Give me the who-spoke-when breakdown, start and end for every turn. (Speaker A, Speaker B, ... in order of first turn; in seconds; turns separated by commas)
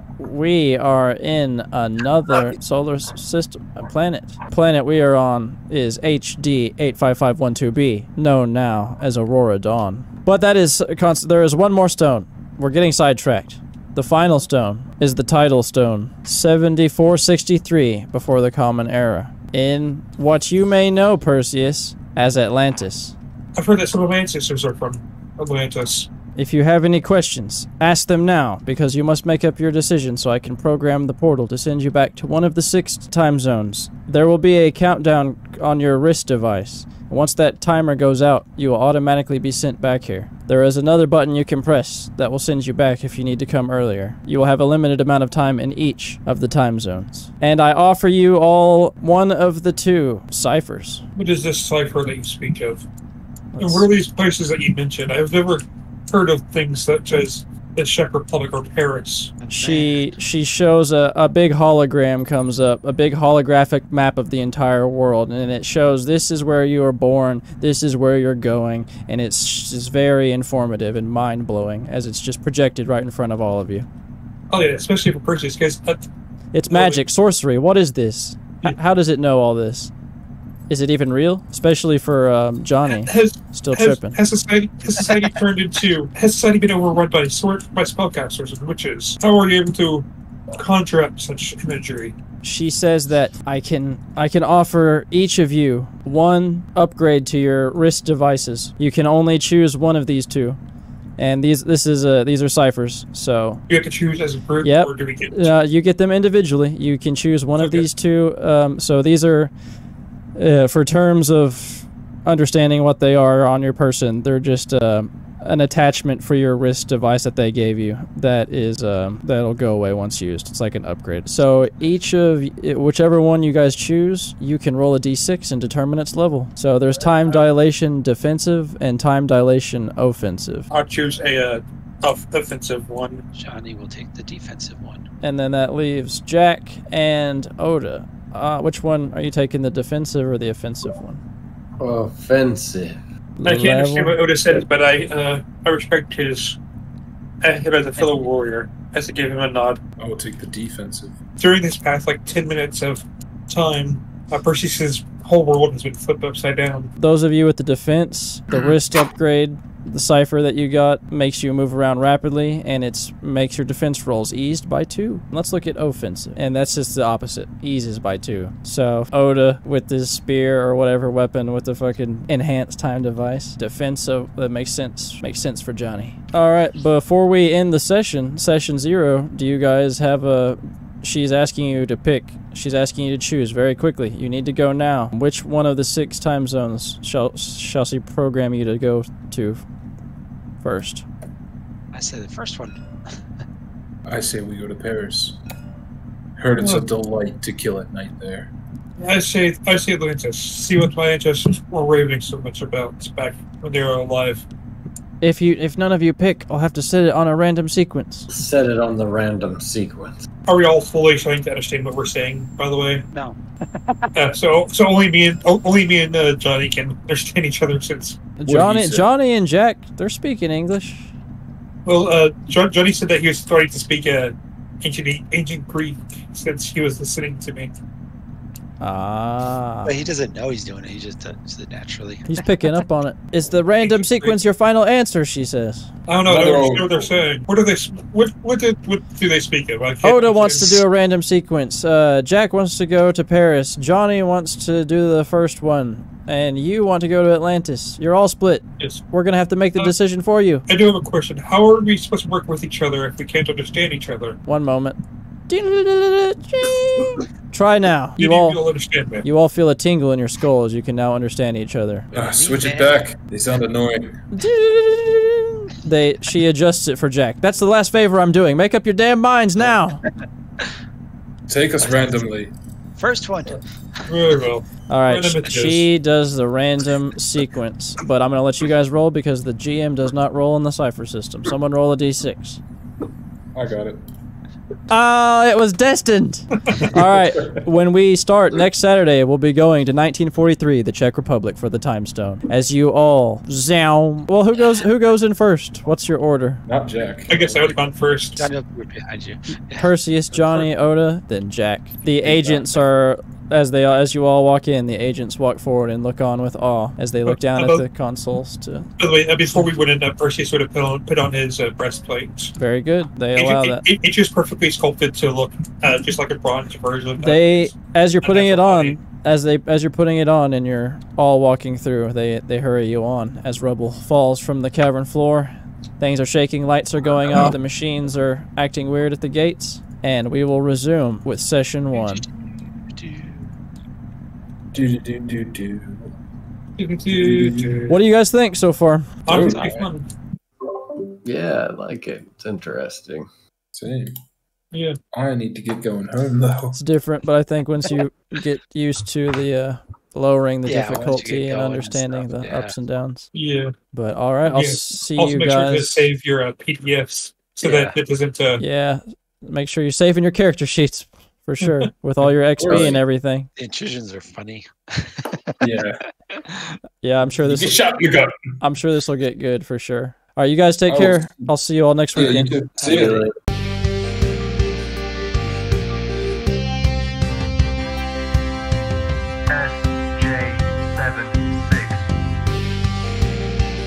Speaker A: 0.2-23.1, Speaker B: 23.6-26.1, Speaker A: 26.4-51.0, Speaker B: 51.2-52.9, Speaker A: 53.5-53.9, Speaker B: 53.6-59.4, Speaker C: 59.4-60.1, Speaker A: 59.5-73.9, Speaker B: 74.5-76.1, Speaker A: 76.5-79.9, Speaker B: 76.7-77.0, Speaker A: 80.7-84.2, Speaker B: 82.9-92.2, Speaker A: 92.4-100.6, Speaker A: 101.2-103.6, Speaker B: 103.7-105.5, Speaker A: 104.6-109.5, Speaker B: 107.6-107.9, Speaker A: 110.4-130.7, Speaker B: 130.7-133.2, Speaker C: 133.3-135.1, Speaker A: 135.2-141.2, Speaker D: 141.8-143.0, Speaker A: 143.4-144.2, Speaker B: 143.4-146.6, Speaker B: 147.4-149.8, Speaker E: 150.0-151.2, Speaker B: 151.4-156.9, Speaker A: 157.0-189.6, Speaker A: 190.6-191.1, Speaker C: 191.9-193.1, Speaker E: 194.1-195.4, Speaker E: 196.4-198.5, Speaker B: 196.6-196.9, Speaker B: 199.0-204.5, Speaker A: 205.2-208.3, Speaker D: 208.3-210.2, Speaker B: 210.5-213.1, Speaker C: 213.1-214.1, Speaker B: 214.2-218.2, Speaker A: 218.4-221.1, Speaker E: 218.5-219.1, Speaker B: 221.9-227.7, Speaker A: 228.8-229.9, Speaker C: 229.8-232.3, Speaker A: 232.3-235.9, Speaker B: 233.8-234.4, Speaker B: 236.1-240.8, Speaker E: 236.3-237.2, Speaker A: 240.0-250.7, Speaker B: 250.7-254.4, Speaker A: 254.5-258.6, Speaker B: 258.2-259.3, Speaker A: 259.2-262.1, Speaker C: 262.1-263.1, Speaker E: 262.1-264.2, Speaker A: 264.3-270.0, Speaker E: 271.5-272.5, Speaker C: 271.8-272.2, Speaker C: 273.0-273.6, Speaker B: 273.5-275.9, Speaker A: 274.9-282.6, Speaker E: 283.6-284.0, Speaker A: 284.9-296.6, Speaker E: 286.8-287.6, Speaker E: 296.7-297.4, Speaker B: 297.3-298.5, Speaker C: 298.4-299.9, Speaker A: 299.8-308.9, Speaker B: 307.3-307.8, Speaker B: 309.0-312.5, Speaker A: 312.6-313.9, Speaker B: 313.4-319.0, Speaker A: 317.2-332.3, Speaker C: 331.9-333.4, Speaker E: 334.7-336.1, Speaker B: 336.8-338.0, Speaker E: 337.1-337.9, Speaker A: 337.9-339.3, Speaker B: 339.3-340.1, Speaker E: 339.3-339.9, Speaker D: 341.2-343.3, Speaker E: 343.7-344.1, Speaker B: 344.7-345.0, Speaker E: 345.1-346.8, Speaker A: 346.8-353.3, Speaker C: 350.7-352.8, Speaker B: 353.3-353.7, Speaker A: 353.9-356.1, Speaker B: 354.5-358.6, Speaker C: 357.6-358.0, Speaker A: 358.6-363.5, Speaker B: 361.6-361.9, Speaker E: 362.6-363.0, Speaker C: 362.7-363.0, Speaker C: 363.6-365.7, Speaker E: 365.6-366.0, Speaker C: 366.3-366.7, Speaker A: 367.0-367.8, Speaker E: 367.4-368.6, Speaker A: 368.6-373.2, Speaker E: 370.9-371.5, Speaker E: 372.1-373.3, Speaker D: 372.8-373.3, Speaker B: 372.9-373.1, Speaker A: 379.5-382.0